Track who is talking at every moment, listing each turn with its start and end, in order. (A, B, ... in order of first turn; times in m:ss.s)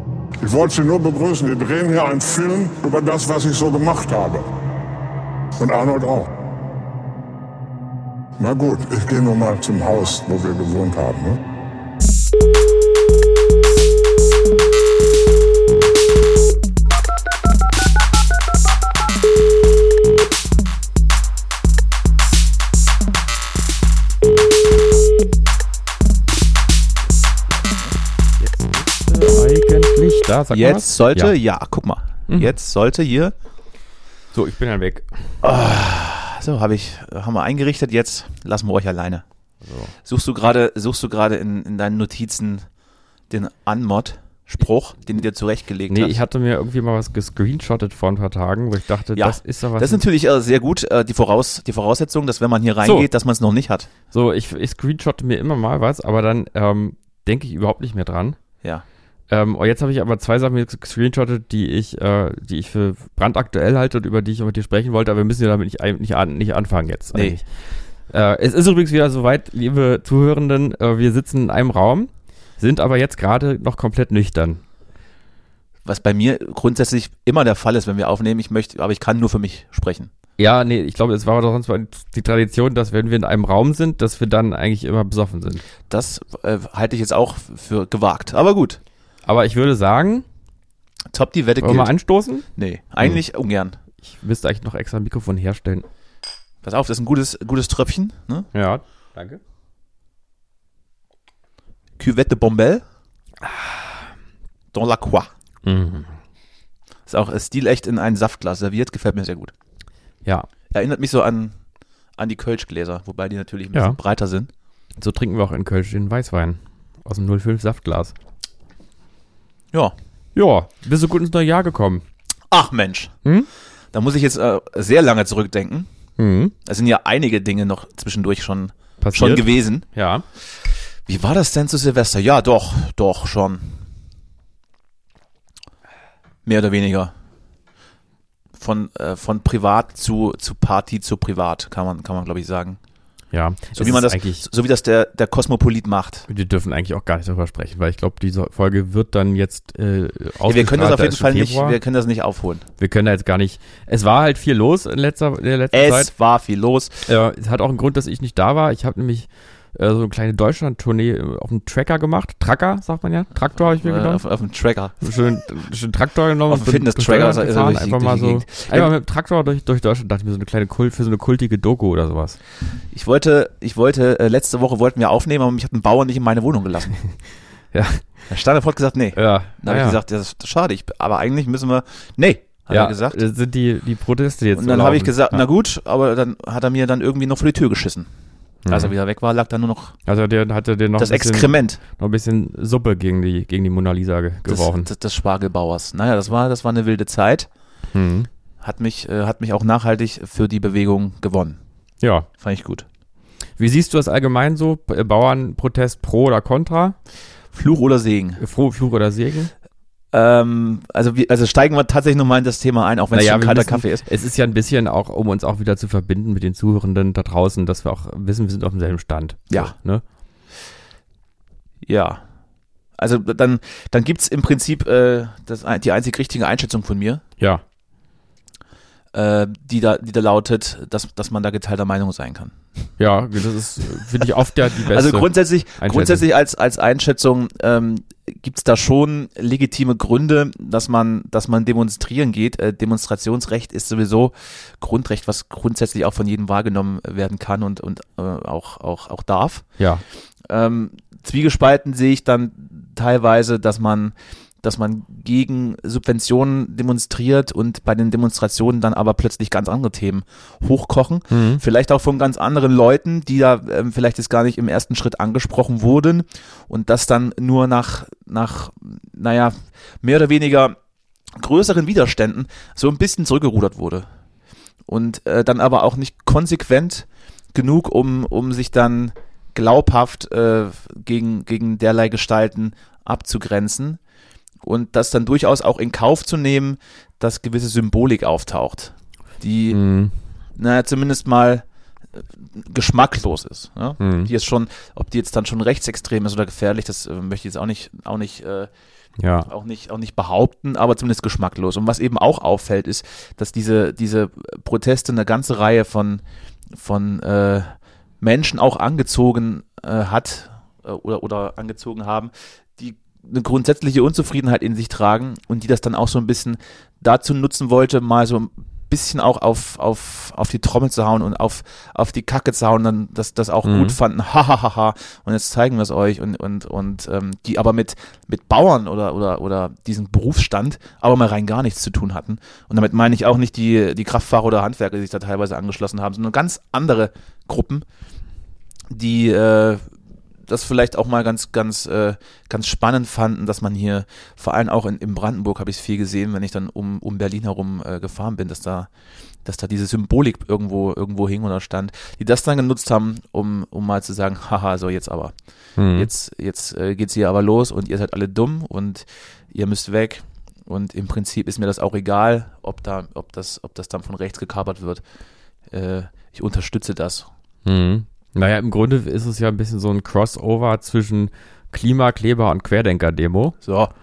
0:00.4-0:04.5 A
0:05.6-0:06.3 A
0:08.4-0:11.4 A
0:27.6-0:28.0 B
0:28.4-0:31.4 C
0:30.5-0:33.3 B
0:32.3-0:32.5 C
0:34.3-0:35.1 C
0:35.4-0:39.2 B
0:39.6-0:39.9 C
0:40.0-0:42.7 B
0:43.3-0:46.2 B
0:45.9-0:50.0 C
0:49.2-0:53.9 B
0:52.8-0:53.1 C
0:54.1-0:58.4 C
0:59.3-1:07.5 C
1:08.1-1:14.6 C
1:15.9-1:20.1 B
1:20.4-1:25.6 C
1:25.9-1:28.8 B
1:29.3-1:30.2 C
1:31.1-1:31.9 B
1:31.6-1:32.5 C
1:32.6-1:33.8 B
1:34.0-1:35.9 C
1:36.6-1:38.5 B
1:38.5-1:39.4 C
1:42.0-1:42.8 B
1:43.4-1:43.7 C
1:44.7-1:45.3 B
1:45.6-1:46.1 C
1:47.1-1:49.5 B
1:50.7-1:51.6 B
1:52.2-1:54.5 B
1:55.0-1:58.1 C
2:00.3-2:02.0 C
2:02.5-2:03.1 B
2:03.9-2:05.9 B
2:06.2-2:06.5 C
2:06.6-2:09.8 B
2:09.0-2:10.2 C
2:11.1-2:13.8 B
2:16.5-2:17.1 B
2:18.6-2:22.8 B
2:23.3-2:24.4 C
2:23.8-2:26.3 B
2:26.3-2:31.8 C
2:30.5-2:32.6 B
2:32.8-2:36.1 C
2:35.7-2:37.1 B
2:37.1-2:44.2 C
2:43.6-2:45.0 B
2:45.0-2:52.4 C
2:46.5-2:48.9 B
2:52.9-2:57.0 B
2:57.7-2:58.0 C
2:58.3-3:03.2 B
2:59.2-3:00.0 C
3:02.7-3:05.4 C
3:04.5-3:08.1 B
3:08.7-3:08.9 C
3:08.7-3:10.0 B
3:10.1-3:14.9 C
3:11.0-3:11.8 B
3:14.5-3:17.5 B
3:17.9-3:18.3 C
3:18.6-3:21.6 B
3:22.0-3:22.3 C
3:22.4-3:22.9 B
3:23.6-3:27.0 C
3:27.5-3:28.4 B
3:28.4-3:29.5 C
3:30.1-3:34.1 B
3:33.1-3:40.0 C
3:41.9-3:42.2 B
3:43.0-3:47.2 B
3:49.1-3:52.6 B
3:53.0-3:55.3 C
3:54.9-4:09.7 B
3:55.8-3:56.2 C
4:10.5-4:30.8 B
4:21.3-4:21.6 C
4:31.4-4:34.1 B
4:34.9-4:44.0 B
4:44.6-4:49.8 B
4:49.7-4:50.2 C
4:50.6-4:51.6 B
4:52.2-4:58.7 B
4:54.0-4:54.3 C
4:59.2-4:59.5 C
4:59.5-5:06.2 B
5:06.8-5:37.8 B
5:23.6-5:24.0 C
5:38.9-5:39.8 B
5:40.5-5:48.9 B
5:49.4-5:55.3 B
5:55.8-5:56.1 C
5:55.9-6:05.0 B
6:05.7-6:07.3 B
6:07.6-6:13.6 C
6:13.6-6:13.9 B